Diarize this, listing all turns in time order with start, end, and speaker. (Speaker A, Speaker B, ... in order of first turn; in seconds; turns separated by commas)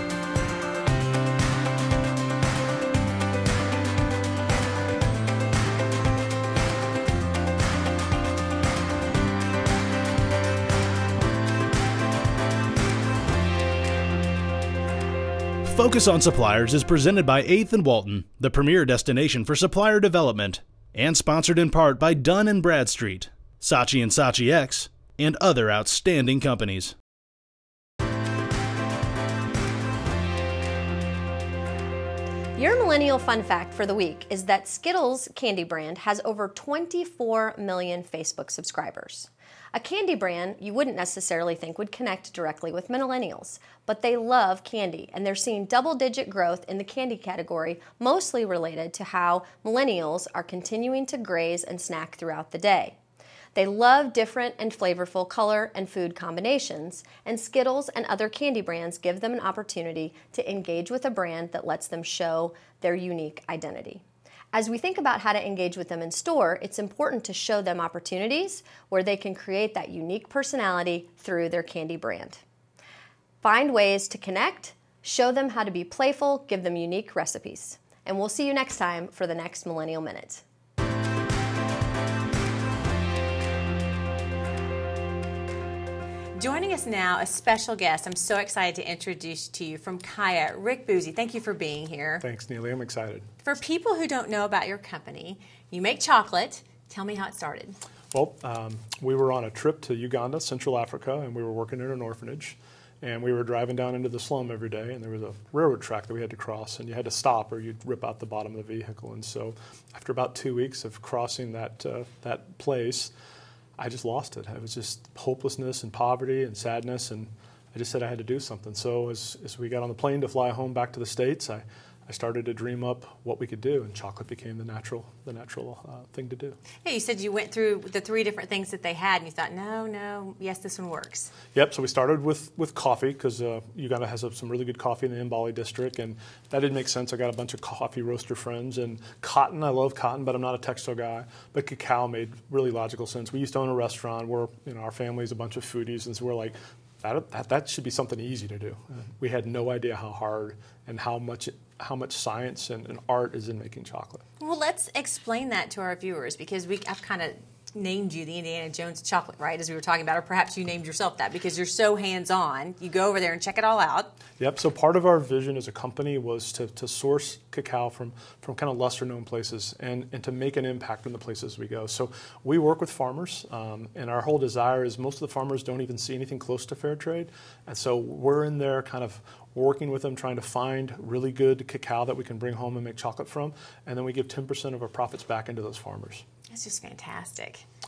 Speaker A: 15.6-26.9, Speaker B: 32.5-53.0, Speaker B: 53.5-64.0, Speaker B: 64.5-72.4, Speaker B: 73.4-80.4, Speaker C: 86.4-92.2, Speaker D: 92.2-93.2, Speaker C: 93.4-97.8, Speaker D: 98.1-113.1, Speaker D: 113.8-126.6, Speaker C: 126.8-131.3, Speaker D: 131.5-154.2, Speaker C: 154.4-164.2, Speaker D: 164.4-186.2, Speaker C: 186.5-187.6